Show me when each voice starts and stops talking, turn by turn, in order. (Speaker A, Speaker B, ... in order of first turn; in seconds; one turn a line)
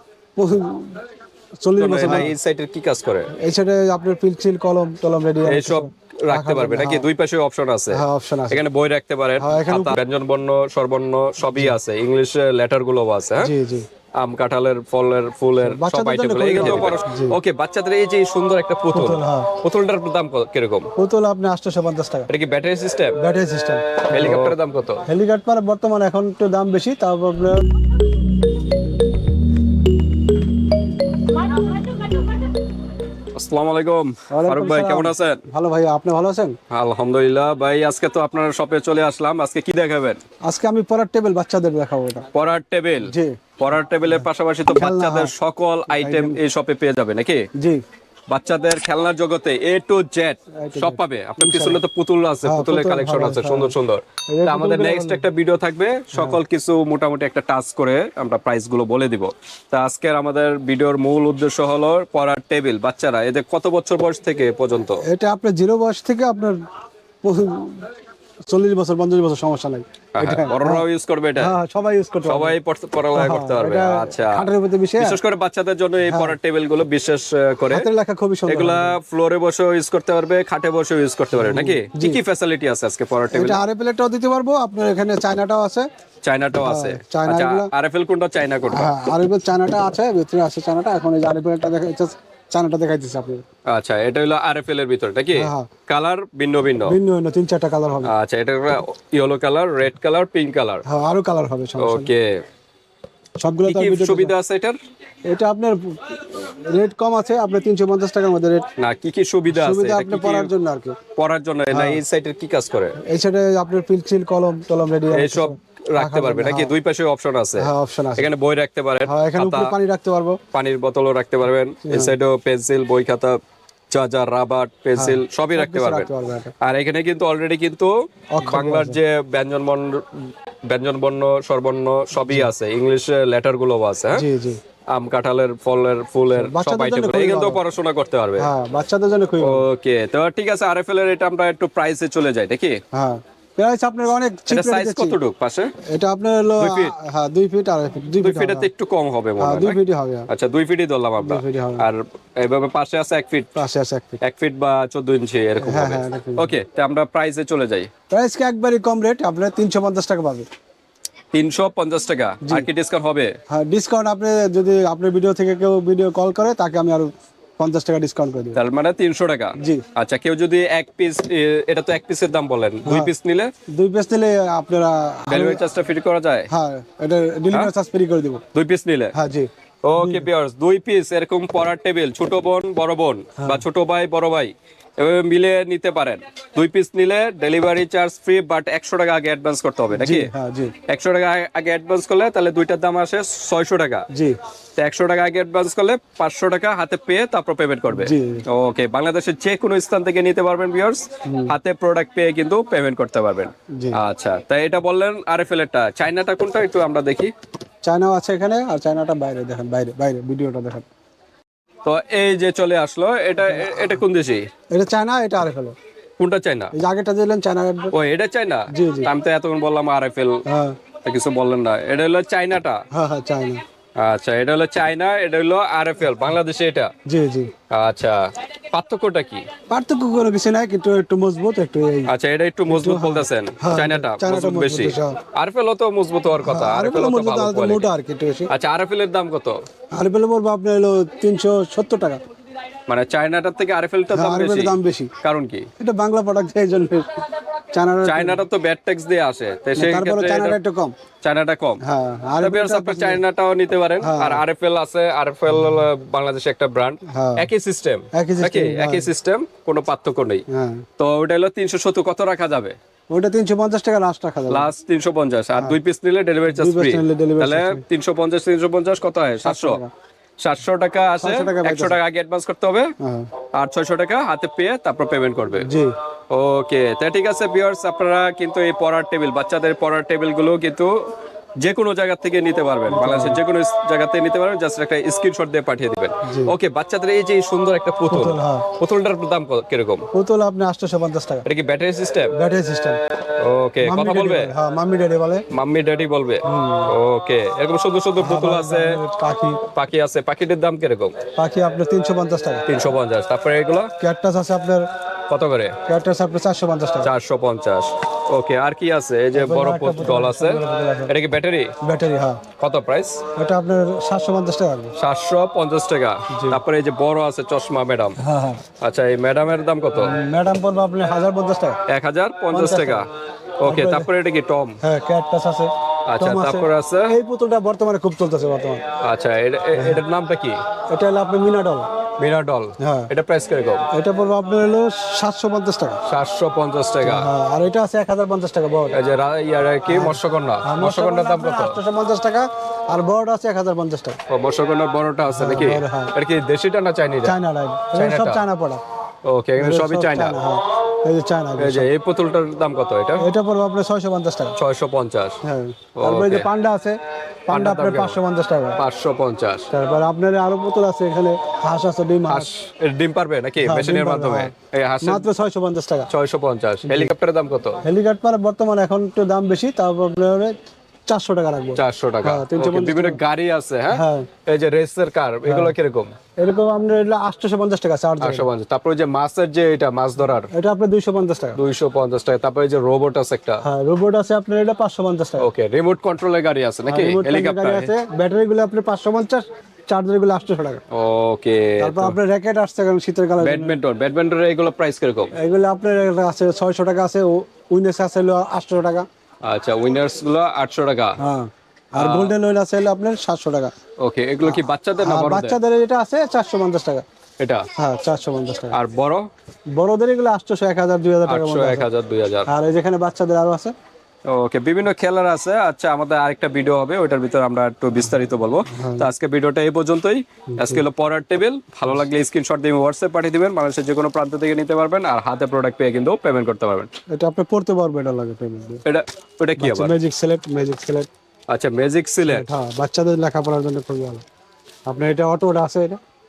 Speaker A: 0.4-1.0
Speaker A: 1.6-2.3
Speaker B: 1.8-3.3
Speaker A: 3.4-7.1
Speaker B: 5.5-13.5
Speaker A: 7.9-8.6
Speaker A: 9.4-10.0
Speaker A: 11.5-11.8
Speaker A: 13.4-13.9
Speaker B: 14.2-20.9
Speaker A: 15.6-17.4
Speaker A: 18.9-19.6
Speaker A: 21.0-22.3
Speaker B: 22.3-23.2
Speaker A: 23.2-27.6
Speaker B: 24.1-25.0
Speaker B: 33.3-35.4
Speaker A: 34.3-36.6
Speaker B: 36.7-40.2
Speaker A: 40.5-42.3
Speaker B: 42.3-47.5
Speaker A: 43.0-43.4
Speaker A: 44.1-45.3
Speaker A: 45.9-46.4
Speaker B: 48.3-65.0
Speaker A: 50.6-51.8
Speaker A: 52.4-53.8
Speaker A: 54.3-55.2
Speaker A: 56.1-56.4
Speaker A: 65.0-66.6
Speaker A: 67.2-67.9
Speaker A: 68.5-70.8
Speaker B: 70.2-71.5
Speaker A: 71.4-72.6
Speaker B: 72.3-74.5
Speaker A: 73.1-75.2
Speaker B: 75.0-77.9
Speaker A: 76.0-76.4
Speaker A: 77.7-79.0
Speaker B: 78.5-83.6
Speaker A: 81.3-82.2
Speaker A: 83.3-85.9
Speaker B: 86.2-88.9
Speaker A: 86.6-87.7
Speaker A: 88.7-93.4
Speaker B: 93.7-97.0
Speaker A: 95.3-95.7
Speaker A: 96.8-98.1
Speaker B: 98.0-100.8
Speaker A: 100.9-102.1
Speaker B: 101.8-102.4
Speaker A: 103.4-104.3
Speaker B: 103.7-104.8
Speaker A: 105.3-108.7
Speaker B: 108.8-110.5
Speaker A: 109.5-111.0
Speaker B: 111.1-113.0
Speaker A: 111.7-112.0
Speaker A: 113.0-116.7
Speaker B: 115.1-119.8
Speaker A: 117.6-118.3
Speaker A: 119.1-120.4
Speaker B: 120.5-123.4
Speaker A: 121.8-122.2
Speaker B: 123.9-126.1
Speaker A: 125.0-126.5
Speaker B: 126.6-134.3
Speaker A: 128.3-129.0
Speaker A: 134.1-134.6
Speaker B: 134.9-138.5
Speaker A: 136.3-137.6
Speaker A: 138.4-139.7
Speaker B: 139.4-142.8
Speaker A: 142.9-145.2
Speaker B: 144.5-145.7
Speaker A: 145.9-148.7
Speaker B: 146.6-146.9
Speaker B: 148.2-153.5
Speaker A: 149.4-150.3
Speaker A: 151.2-151.9
Speaker A: 153.6-154.2
Speaker B: 154.2-157.9
Speaker A: 155.6-156.5
Speaker A: 158.1-160.5
Speaker B: 161.3-163.3
Speaker A: 163.5-168.6
Speaker B: 168.6-173.5
Speaker A: 169.6-169.8
Speaker A: 172.8-173.1
Speaker A: 173.7-175.7
Speaker B: 175.3-176.5
Speaker A: 176.5-178.4
Speaker B: 178.5-179.1
Speaker A: 179.2-180.3
Speaker B: 179.8-190.3
Speaker A: 183.4-183.6
Speaker A: 189.9-190.7
Speaker B: 190.9-194.1
Speaker A: 194.1-194.4
Speaker B: 194.8-207.3
Speaker A: 197.9-198.4
Speaker A: 201.3-201.5
Speaker A: 203.7-204.0
Speaker A: 207.8-210.9
Speaker B: 211.8-214.5
Speaker A: 213.4-214.0
Speaker A: 214.7-215.8
Speaker B: 216.2-216.7
Speaker A: 216.7-217.9
Speaker B: 217.9-220.4
Speaker A: 218.7-219.1
Speaker A: 220.5-220.8
Speaker B: 221.0-222.8
Speaker A: 222.9-223.6
Speaker B: 224.0-226.9
Speaker A: 227.1-227.5
Speaker B: 227.7-229.5
Speaker A: 229.7-232.1
Speaker B: 232.1-237.9
Speaker A: 232.7-235.2
Speaker A: 236.4-238.5
Speaker B: 238.5-239.6
Speaker A: 239.9-242.2
Speaker B: 242.9-245.7
Speaker A: 244.1-245.1
Speaker A: 245.8-247.2
Speaker A: 247.7-248.4
Speaker B: 248.0-250.6
Speaker A: 249.8-250.9
Speaker B: 251.2-251.8
Speaker A: 251.8-253.2
Speaker B: 252.4-260.4
Speaker A: 254.0-254.4
Speaker A: 255.5-255.9
Speaker A: 257.1-257.5
Speaker A: 258.1-259.1
Speaker A: 260.5-260.9
Speaker B: 261.0-262.8
Speaker A: 263.1-264.7
Speaker B: 264.5-269.8
Speaker A: 265.5-265.8
Speaker A: 266.5-267.8
Speaker A: 269.4-269.9
Speaker B: 270.4-272.9
Speaker A: 271.2-272.0
Speaker A: 273.0-273.3
Speaker B: 273.5-275.7
Speaker A: 275.6-275.9
Speaker B: 276.3-280.9
Speaker B: 281.6-290.1
Speaker A: 282.9-283.4
Speaker A: 286.2-286.5
Speaker A: 288.1-288.7
Speaker A: 290.1-291.5
Speaker B: 291.4-292.3
Speaker A: 292.3-293.0
Speaker B: 293.4-294.5
Speaker A: 293.8-295.5
Speaker B: 295.5-299.0
Speaker A: 296.5-296.9
Speaker A: 298.2-299.6
Speaker B: 299.7-301.1
Speaker A: 301.4-302.9
Speaker B: 302.7-303.9
Speaker A: 304.0-304.9
Speaker B: 305.3-305.8
Speaker A: 305.9-307.1
Speaker B: 307.0-311.7
Speaker A: 309.3-311.1
Speaker A: 311.8-312.4
Speaker B: 312.6-313.2
Speaker A: 313.4-314.9
Speaker B: 315.0-318.2
Speaker A: 316.3-316.6
Speaker A: 318.2-318.6
Speaker B: 318.8-320.2
Speaker A: 320.0-321.8
Speaker B: 321.9-323.1
Speaker A: 322.5-323.1
Speaker B: 323.6-324.8
Speaker A: 323.6-324.1
Speaker A: 324.8-328.8
Speaker B: 326.1-327.2
Speaker B: 329.0-330.6
Speaker A: 329.8-330.0
Speaker A: 330.9-331.9
Speaker B: 332.2-333.9
Speaker A: 332.8-333.1
Speaker A: 333.9-336.0
Speaker B: 336.1-337.3
Speaker A: 337.0-339.0
Speaker B: 338.9-341.8
Speaker A: 339.9-344.2
Speaker B: 344.3-347.4
Speaker A: 345.3-346.1
Speaker A: 347.2-348.8
Speaker B: 347.9-348.4
Speaker B: 349.2-350.4
Speaker A: 349.6-351.9
Speaker B: 351.6-353.3
Speaker A: 353.2-354.6
Speaker B: 354.6-355.4
Speaker A: 355.4-357.0
Speaker B: 356.0-356.5
Speaker A: 357.5-358.8
Speaker B: 357.5-358.2
Speaker B: 358.8-359.7
Speaker A: 359.7-362.5
Speaker B: 362.3-365.3
Speaker A: 363.6-366.1
Speaker B: 366.1-367.8
Speaker A: 366.9-367.1
Speaker A: 367.8-370.6
Speaker A: 371.1-373.2
Speaker B: 371.8-376.1
Speaker A: 373.9-374.3
Speaker A: 375.4-375.7
Speaker A: 376.4-378.5
Speaker B: 378.2-380.5
Speaker A: 380.5-381.6
Speaker B: 381.6-383.6
Speaker A: 383.6-385.5
Speaker B: 385.4-387.9
Speaker A: 386.9-390.8
Speaker B: 390.9-392.2
Speaker A: 391.8-393.8
Speaker B: 393.4-395.3
Speaker A: 395.4-399.1
Speaker B: 399.4-401.2
Speaker A: 401.2-403.7
Speaker B: 402.0-402.3
Speaker B: 404.0-405.6
Speaker A: 404.4-407.1
Speaker B: 407.4-407.7
Speaker A: 407.8-408.8
Speaker B: 408.7-409.3
Speaker A: 409.8-411.9
Speaker B: 411.3-412.5
Speaker A: 412.5-413.7
Speaker B: 414.3-426.9
Speaker A: 418.7-419.1
Speaker A: 420.5-420.8
Speaker A: 427.1-428.8
Speaker B: 428.9-430.0
Speaker A: 429.6-431.1
Speaker B: 431.5-432.5
Speaker A: 432.3-434.2
Speaker A: 434.9-436.0